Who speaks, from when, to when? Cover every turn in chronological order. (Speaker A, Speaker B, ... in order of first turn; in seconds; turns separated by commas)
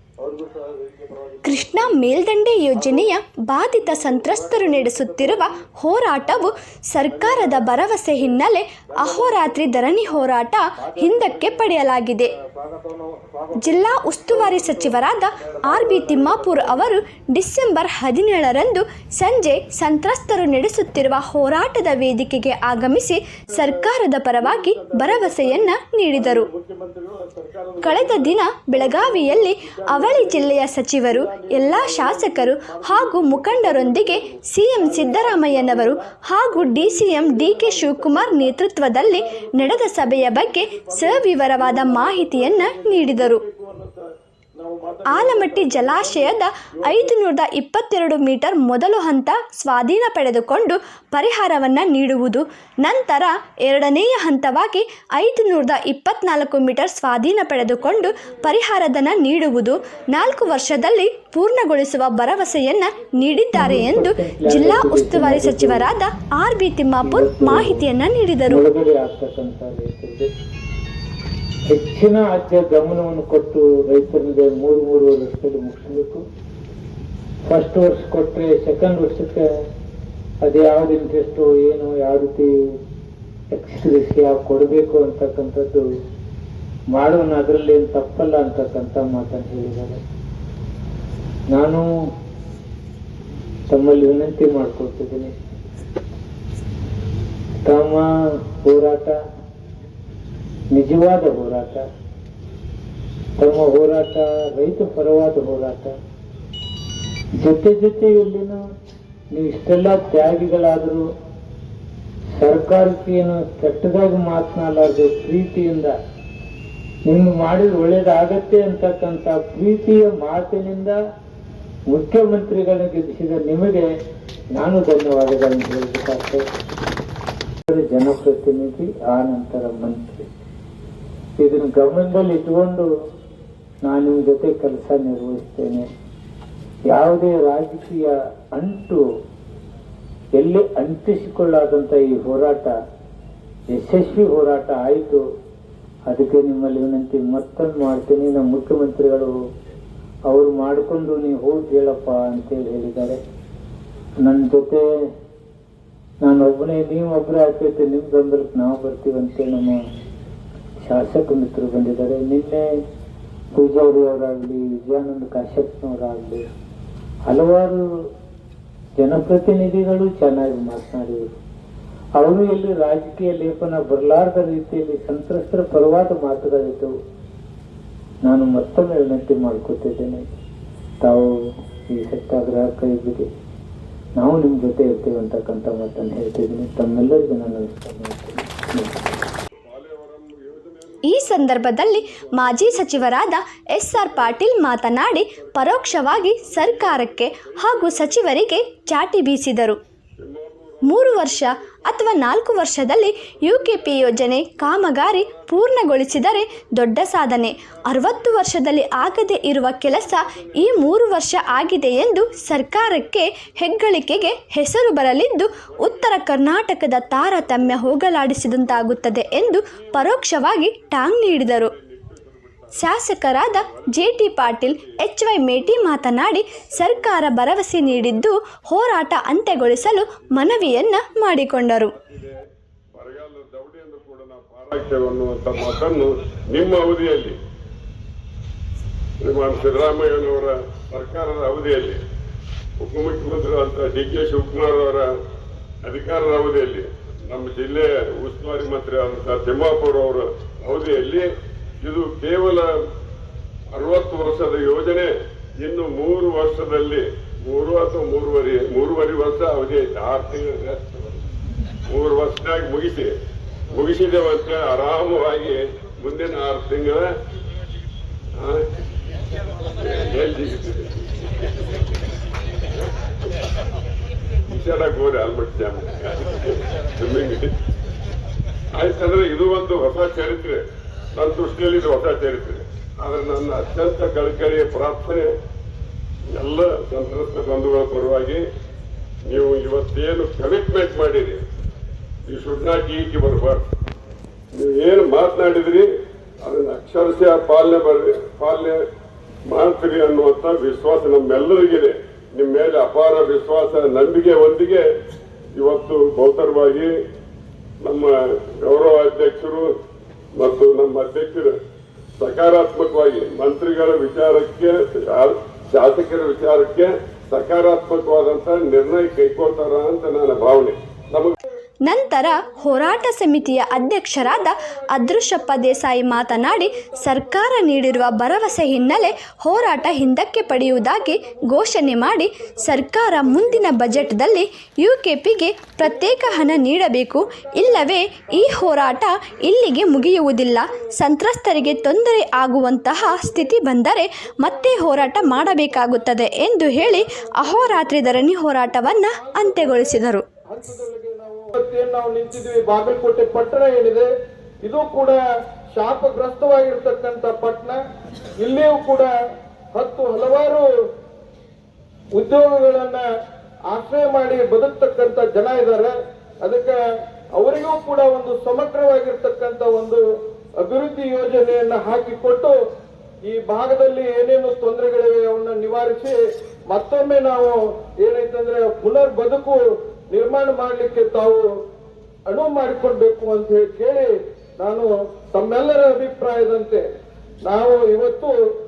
Speaker A: 0.2-1.6, Speaker B: 1.4-12.3, Speaker A: 2.8-3.1, Speaker A: 3.9-5.5, Speaker A: 7.1-8.4, Speaker A: 8.9-10.2, Speaker A: 10.8-11.7, Speaker A: 12.4-16.9, Speaker B: 13.6-26.5, Speaker A: 23.5-44.0, Speaker B: 27.8-43.4, Speaker A: 44.6-47.2, Speaker B: 45.1-68.6, Speaker A: 57.8-58.5, Speaker A: 59.3-60.8, Speaker C: 63.5-65.9, Speaker C: 67.0-67.9, Speaker C: 68.5-70.3, Speaker C: 71.7-76.2, Speaker C: 77.5-79.5, Speaker C: 80.4-82.5, Speaker C: 83.5-85.9, Speaker C: 86.9-90.0, Speaker C: 91.5-91.9, Speaker C: 93.7-95.4, Speaker C: 97.7-99.2, Speaker C: 100.7-101.8, Speaker C: 103.4-106.0, Speaker C: 107.4-108.6, Speaker C: 109.3-111.1, Speaker C: 112.4-116.0, Speaker C: 117.1-121.0, Speaker C: 121.9-123.9, Speaker C: 124.5-126.4, Speaker C: 127.7-130.3, Speaker C: 131.4-132.9, Speaker C: 133.8-135.9, Speaker C: 136.9-139.0, Speaker C: 140.3-142.7, Speaker C: 143.7-145.2, Speaker C: 146.1-149.3, Speaker C: 150.3-153.2, Speaker C: 154.2-154.8, Speaker C: 156.2-159.8, Speaker C: 160.8-162.7, Speaker C: 163.5-166.4, Speaker C: 167.3-167.8, Speaker C: 169.0-171.3, Speaker C: 172.2-176.9, Speaker C: 178.2-180.2, Speaker C: 181.0-181.4, Speaker C: 181.9-183.3, Speaker C: 184.2-189.1, Speaker D: 189.6-193.3, Speaker B: 191.1-199.8, Speaker D: 194.0-198.6, Speaker D: 200.2-213.2, Speaker B: 200.8-221.7, Speaker D: 213.8-214.2, Speaker D: 215.2-228.3, Speaker B: 222.8-231.9, Speaker D: 229.1-232.3, Speaker D: 232.9-237.4, Speaker D: 239.2-242.0, Speaker D: 242.8-245.1, Speaker D: 245.8-251.3, Speaker D: 251.8-252.7, Speaker D: 253.7-261.2, Speaker D: 261.9-263.1, Speaker D: 263.7-267.1, Speaker D: 268.4-268.7, Speaker D: 269.8-271.1, Speaker D: 274.5-277.5, Speaker D: 278.8-280.6, Speaker D: 281.1-285.3, Speaker D: 286.4-288.4, Speaker D: 289.3-291.4, Speaker D: 292.3-293.6, Speaker D: 294.6-295.9, Speaker D: 296.4-298.8, Speaker D: 299.5-304.9, Speaker D: 305.6-306.9, Speaker D: 307.8-309.7, Speaker D: 310.4-311.5, Speaker D: 312.2-321.4, Speaker B: 321.8-350.2, Speaker A: 321.9-334.4, Speaker A: 335.8-340.9, Speaker A: 341.5-343.7, Speaker A: 344.4-354.1, Speaker A: 354.6-355.2, Speaker A: 355.7-357.8, Speaker A: 358.4-359.1, Speaker A: 359.7-360.7, Speaker A: 362.1-363.1, Speaker A: 363.7-366.8, Speaker A: 367.4-370.0, Speaker A: 370.6-372.5, Speaker A: 373.2-376.2, Speaker A: 376.7-379.6, Speaker A: 380.1-381.5, Speaker A: 382.3-386.8, Speaker A: 387.4-388.4